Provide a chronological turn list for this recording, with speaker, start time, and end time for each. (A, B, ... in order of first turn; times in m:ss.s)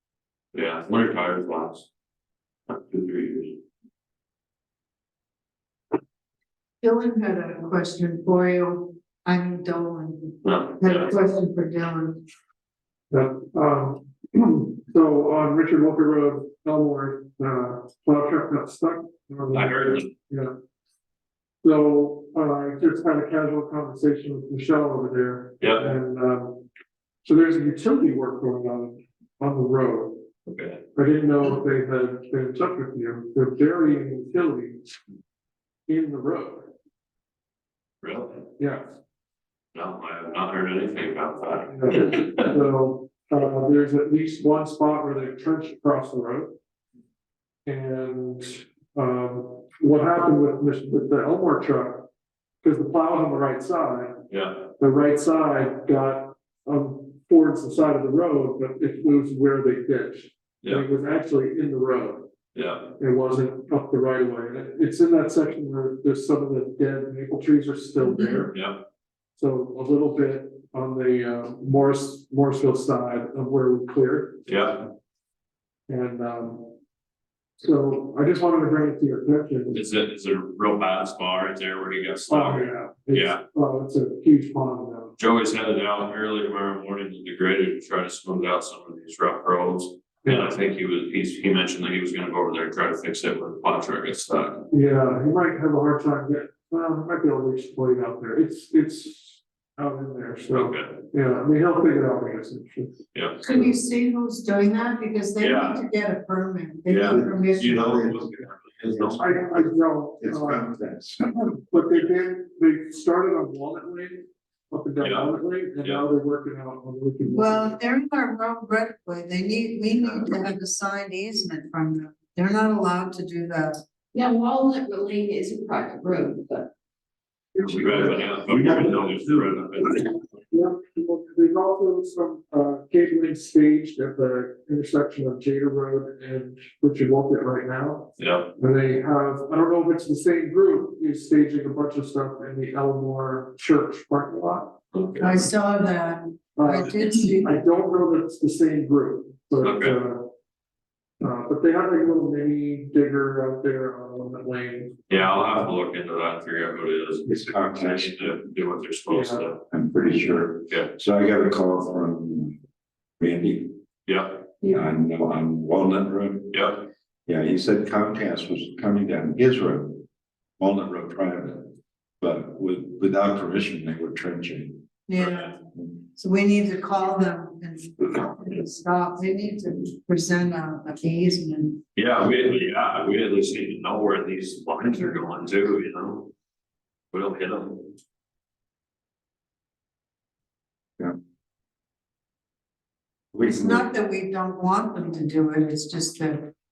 0:00.5-0:01.9 A
0:02.7-0:03.6 A
0:06.8-0:12.2 B
0:10.4-0:11.1 A
0:13.1-0:20.5 C
0:19.5-0:20.0 A
0:21.6-0:26.6 C
0:25.6-0:25.9 A
0:27.2-0:30.2 C
0:30.4-0:30.8 A
0:30.9-0:34.8 C
0:35.9-0:36.7 C
0:38.0-0:38.4 A
0:38.6-0:38.8 C
0:39.7-0:42.5 A
0:41.7-0:46.5 C
0:47.6-0:52.1 C
0:52.6-0:54.2 C
0:54.3-0:54.7 A
0:54.8-1:02.3 C
1:02.5-1:03.0 A
1:03.0-1:08.5 C
1:08.5-1:08.8 A
1:09.4-1:14.4 C
1:14.4-1:14.9 A
1:15.9-1:16.7 C
1:17.6-1:19.8 C
1:19.7-1:23.4 A
1:22.3-1:25.1 C
1:25.2-1:34.7 A
1:30.2-1:30.5 C
1:34.7-1:43.0 C
1:40.5-1:41.0 A
1:43.1-1:43.6 A
1:43.4-1:47.8 B
1:45.4-1:45.8 A
1:46.9-1:49.4 A
1:47.0-1:49.6 D
1:49.2-1:50.7 C
1:50.2-1:51.4 D
1:51.7-1:57.7 C
1:55.0-1:56.0 A
1:57.3-2:03.8 B
2:04.1-2:06.7 E
2:07.6-2:09.5 D
2:07.6-2:10.1 A
2:10.5-2:24.7 C
2:18.2-2:18.5 A
2:24.9-2:25.4 A
2:25.2-2:27.6 B
2:26.6-2:30.2 C
2:29.6-2:30.0 A
2:31.2-2:35.2 C
2:35.1-2:39.6 A
2:37.2-2:38.4 D
2:39.1-2:39.4 C
2:39.7-2:42.6 D
2:40.7-2:40.9 A
2:43.2-2:43.8 D
2:44.0-2:44.4 A
2:44.7-2:46.6 D
2:46.5-2:46.9 A
2:47.2-2:50.0 D
2:50.6-2:54.8 D
2:55.1-2:55.6 B
2:55.2-2:55.5 A
2:56.1-3:01.8 B
3:02.0-3:06.3 A
3:07.1-3:07.9 A
3:13.3-3:13.8 D
3:13.4-3:16.5 B